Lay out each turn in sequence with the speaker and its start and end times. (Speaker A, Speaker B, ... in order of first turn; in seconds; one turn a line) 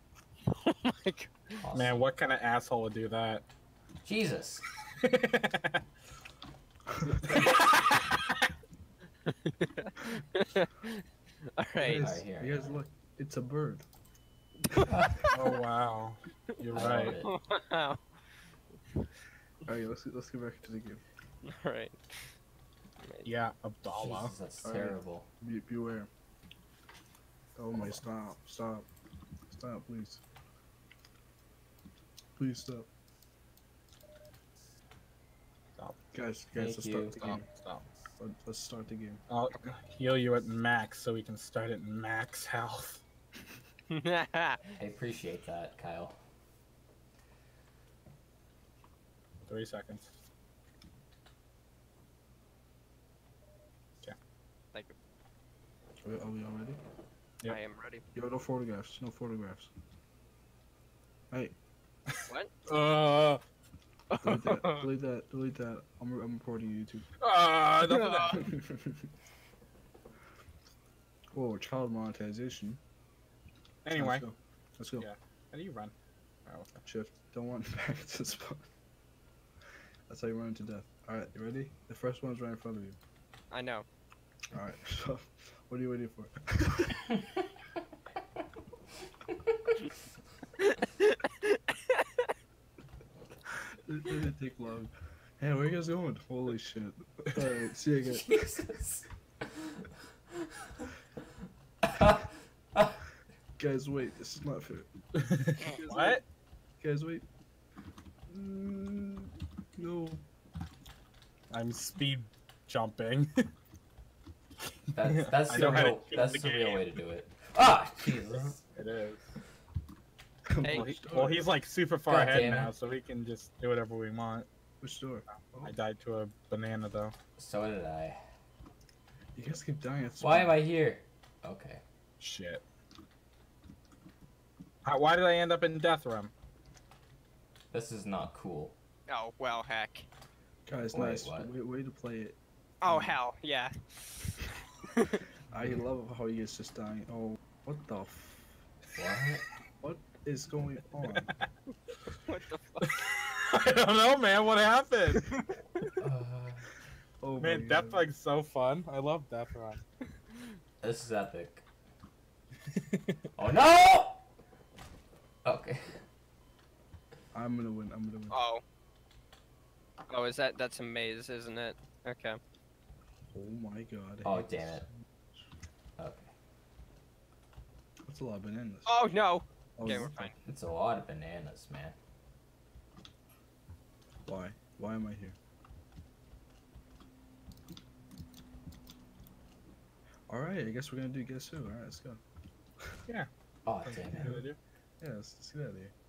Speaker A: 0.5-1.6
Speaker B: 1.6-2.0
Speaker C: 1.7-3.5
Speaker B: 4.0-4.6
Speaker C: 5.0-5.8
Speaker C: 7.3-8.1
Speaker A: 9.2-11.0
Speaker A: 11.6-12.0
Speaker D: 11.8-13.8
Speaker B: 12.0-12.8
Speaker A: 14.8-15.4
Speaker C: 15.3-17.2
Speaker B: 16.7-17.3
Speaker A: 17.3-18.0
Speaker D: 19.7-21.0
Speaker A: 21.4-21.9
Speaker A: 23.0-23.3
Speaker C: 23.2-24.3
Speaker B: 23.9-25.3
Speaker D: 24.6-26.1
Speaker D: 27.6-28.9
Speaker B: 27.7-28.0
Speaker D: 29.5-30.2
Speaker D: 32.4-32.9
Speaker C: 35.8-36.0
Speaker D: 36.1-37.5
Speaker B: 36.5-37.4
Speaker C: 37.2-37.9
Speaker D: 38.2-39.2
Speaker C: 39.3-43.0
Speaker A: 43.9-44.6
Speaker B: 44.8-46.2
Speaker C: 49.5-50.1
Speaker D: 56.0-56.8
Speaker A: 57.5-58.0
Speaker D: 58.1-59.7
Speaker D: 61.3-61.6
Speaker C: 62.7-63.4
Speaker A: 64.1-64.9
Speaker D: 64.2-67.1
Speaker C: 67.2-68.5
Speaker A: 67.8-68.4
Speaker D: 68.4-69.1
Speaker D: 71.3-72.8
Speaker C: 73.8-74.2
Speaker D: 74.0-75.1
Speaker C: 75.0-75.9
Speaker C: 76.5-76.8
Speaker D: 76.8-78.7
Speaker D: 80.1-83.0
Speaker A: 83.5-83.8
Speaker D: 84.5-87.0
Speaker A: 90.6-92.0
Speaker D: 93.8-98.4
Speaker B: 98.0-99.8
Speaker D: 103.6-104.9
Speaker C: 105.2-106.2
Speaker D: 105.6-106.2
Speaker D: 106.8-107.2
Speaker D: 108.3-110.2
Speaker C: 111.5-113.3
Speaker B: 114.9-118.6
Speaker C: 115.3-116.8
Speaker C: 118.3-119.2
Speaker D: 120.5-121.5
Speaker C: 120.7-124.5
Speaker B: 122.1-122.7
Speaker D: 124.8-125.7
Speaker C: 125.3-127.2
Speaker B: 127.4-128.2
Speaker D: 129.4-130.6
Speaker B: 130.2-131.8
Speaker C: 132.2-132.6
Speaker C: 134.8-136.3
Speaker B: 137.7-138.8
Speaker A: 139.1-140.1
Speaker D: 140.7-143.2
Speaker B: 140.9-141.5
Speaker A: 142.8-144.4
Speaker A: 144.9-145.2
Speaker D: 145.5-148.6
Speaker B: 149.0-149.4
Speaker D: 149.8-151.3
Speaker C: 151.1-151.4
Speaker A: 152.3-152.9
Speaker C: 152.9-155.4
Speaker B: 156.0-156.7
Speaker D: 157.2-158.1
Speaker C: 157.4-159.8
Speaker B: 160.8-161.6
Speaker C: 162.7-163.2
Speaker B: 163.4-164.2
Speaker B: 165.4-166.0
Speaker D: 167.3-168.4
Speaker A: 168.3-168.6
Speaker A: 170.1-172.4
Speaker D: 173.3-175.0
Speaker B: 174.2-174.9
Speaker B: 176.0-176.3
Speaker D: 178.1-179.0
Speaker A: 178.9-180.3
Speaker D: 179.8-180.3
Speaker B: 180.5-181.9
Speaker D: 184.3-185.4
Speaker D: 190.3-192.2
Speaker B: 193.7-194.3
Speaker C: 193.8-194.6
Speaker D: 195.0-195.9